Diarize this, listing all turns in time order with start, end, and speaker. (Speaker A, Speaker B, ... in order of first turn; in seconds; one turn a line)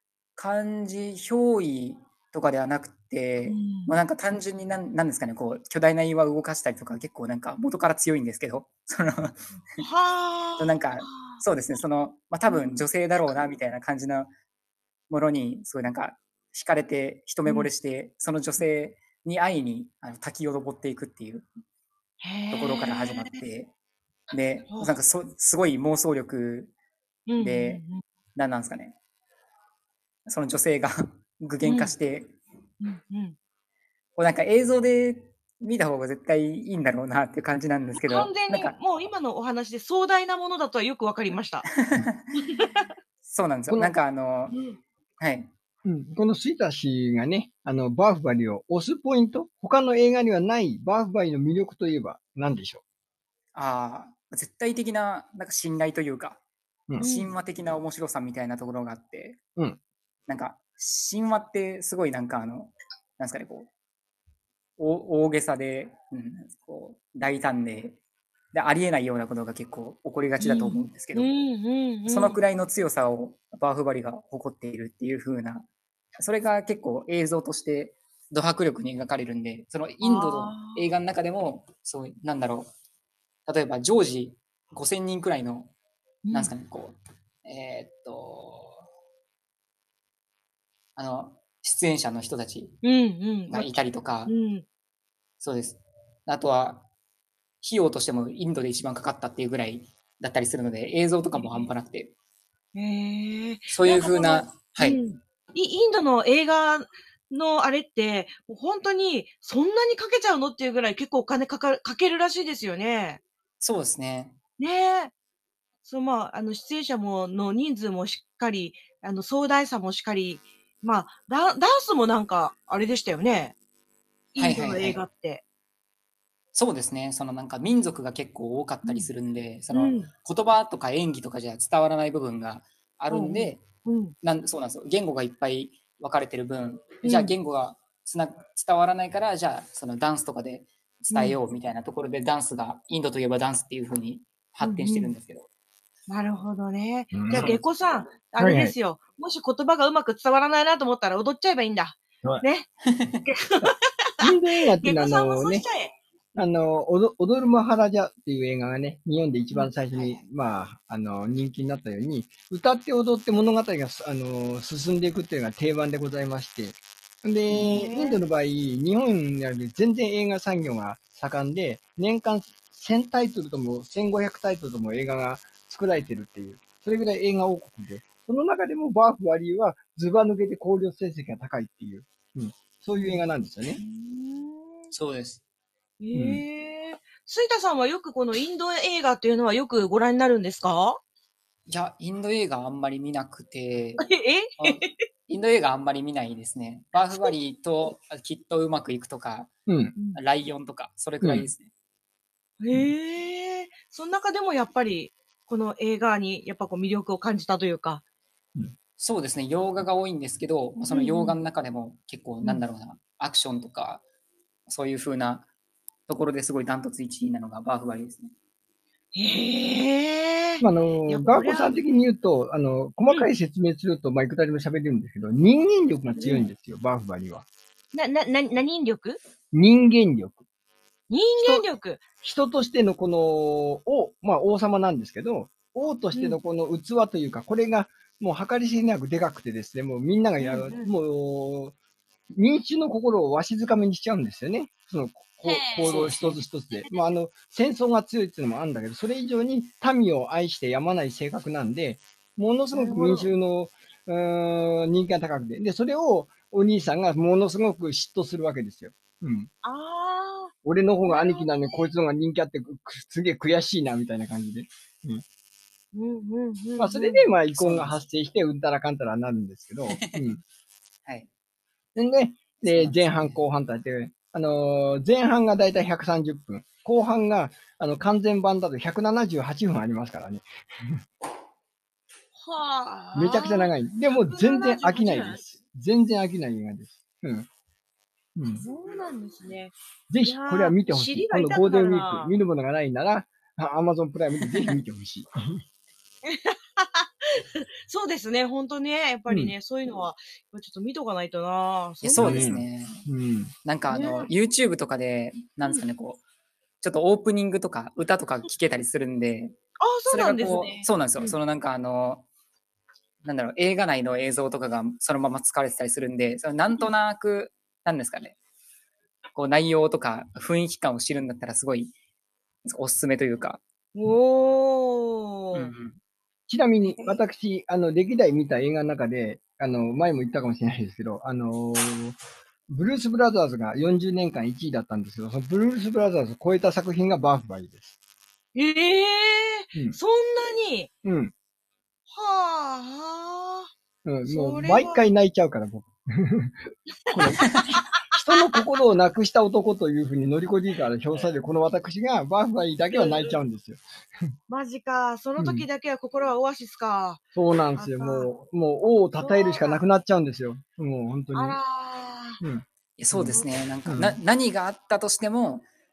Speaker A: 0.3-9.8
Speaker B: 3.5-3.9
Speaker B: 9.8-11.4
Speaker A: 10.6-14.3
Speaker B: 12.5-12.8
Speaker A: 15.1-21.5
Speaker B: 22.2-23.4
Speaker A: 22.5-23.7
Speaker A: 24.3-26.7
Speaker B: 24.7-24.9
Speaker B: 27.3-28.0
Speaker A: 27.4-27.8
Speaker A: 28.3-28.9
Speaker A: 30.2-32.3
Speaker B: 31.6-31.9
Speaker B: 32.8-33.4
Speaker A: 34.1-38.7
Speaker B: 38.0-41.6
Speaker A: 41.7-42.4
Speaker B: 42.4-42.9
Speaker A: 43.2-44.6
Speaker B: 44.5-44.8
Speaker A: 45.2-45.5
Speaker C: 45.8-52.8
Speaker A: 53.5-56.4
Speaker A: 57.0-59.4
Speaker B: 57.0-57.3
Speaker A: 60.3-63.7
Speaker A: 64.8-68.0
Speaker A: 68.5-71.3
Speaker B: 70.4-72.4
Speaker A: 72.1-75.7
Speaker A: 76.2-82.7
Speaker B: 80.0-80.9
Speaker A: 83.5-85.7
Speaker B: 86.2-86.5
Speaker A: 86.3-88.8
Speaker A: 91.0-92.8
Speaker B: 92.8-94.6
Speaker A: 93.5-94.3
Speaker A: 95.4-96.8
Speaker A: 97.6-102.1
Speaker B: 101.4-101.6
Speaker B: 102.7-113.2
Speaker A: 103.7-105.0
Speaker A: 113.6-114.4
Speaker B: 114.6-115.1
Speaker B: 115.8-123.5
Speaker B: 124.3-125.4
Speaker A: 124.4-125.0
Speaker A: 126.5-133.6
Speaker B: 128.8-129.1
Speaker B: 129.7-130.1
Speaker B: 133.1-134.1
Speaker A: 134.2-145.5
Speaker B: 137.0-137.3
Speaker B: 141.1-141.4
Speaker B: 144.6-145.1
Speaker B: 146.1-152.7
Speaker C: 147.1-147.6
Speaker C: 148.4-148.7
Speaker A: 152.8-153.2
Speaker B: 153.2-155.9
Speaker C: 154.2-155.6
Speaker C: 156.3-183.8
Speaker A: 159.9-160.2
Speaker B: 167.5-168.2
Speaker B: 182.9-183.2
Speaker B: 183.8-184.9
Speaker A: 184.9-185.4
Speaker B: 186.0-191.0
Speaker C: 186.1-186.4
Speaker A: 191.7-194.1
Speaker B: 194.0-194.9
Speaker A: 194.6-199.5
Speaker C: 199.7-199.9
Speaker A: 200.1-201.7
Speaker C: 201.2-201.5
Speaker B: 202.6-208.0
Speaker A: 209.0-214.0
Speaker B: 210.9-211.4
Speaker A: 214.7-215.5
Speaker A: 216.1-218.3
Speaker B: 219.1-221.7
Speaker C: 220.6-227.4
Speaker B: 226.2-226.5
Speaker B: 227.9-229.2
Speaker C: 229.5-230.4
Speaker B: 231.1-232.0
Speaker C: 231.4-231.7
Speaker C: 232.2-241.7
Speaker B: 236.1-236.4
Speaker B: 240.4-240.9
Speaker C: 242.3-259.5
Speaker B: 245.4-246.9
Speaker A: 245.9-246.4
Speaker B: 252.7-253.3
Speaker B: 259.6-260.5
Speaker C: 260.6-265.2
Speaker B: 261.1-261.9
Speaker B: 265.9-267.3
Speaker C: 266.8-270.4
Speaker A: 267.5-267.9
Speaker A: 269.9-270.3
Speaker C: 271.9-281.0
Speaker A: 272.6-273.4
Speaker B: 282.4-285.4
Speaker C: 283.1-287.5
Speaker C: 288.4-288.6
Speaker B: 288.4-292.3
Speaker C: 290.1-295.6
Speaker A: 294.4-294.8
Speaker B: 296.2-302.5
Speaker C: 299.3-299.5
Speaker A: 302.0-303.0
Speaker C: 302.2-303.5
Speaker A: 303.6-306.2
Speaker B: 303.9-304.3
Speaker A: 306.8-309.6
Speaker B: 309.8-311.4
Speaker A: 310.1-312.3
Speaker A: 313.2-318.4
Speaker A: 319.3-321.9
Speaker A: 322.6-323.6
Speaker B: 323.9-325.7
Speaker A: 325.5-326.0
Speaker C: 326.5-332.1
Speaker C: 332.7-337.9
Speaker B: 338.5-340.9
Speaker C: 341.0-341.3
Speaker B: 342.1-343.7
Speaker C: 344.0-347.6
Speaker B: 344.2-345.1
Speaker B: 347.1-348.6
Speaker C: 348.1-353.8
Speaker B: 352.9-353.4
Speaker B: 354.5-357.2
Speaker C: 355.4-355.6
Speaker C: 357.3-361.6
Speaker B: 357.8-358.3
Speaker B: 359.2-359.8
Speaker B: 361.3-362.4
Speaker C: 362.4-364.2
Speaker A: 363.0-365.7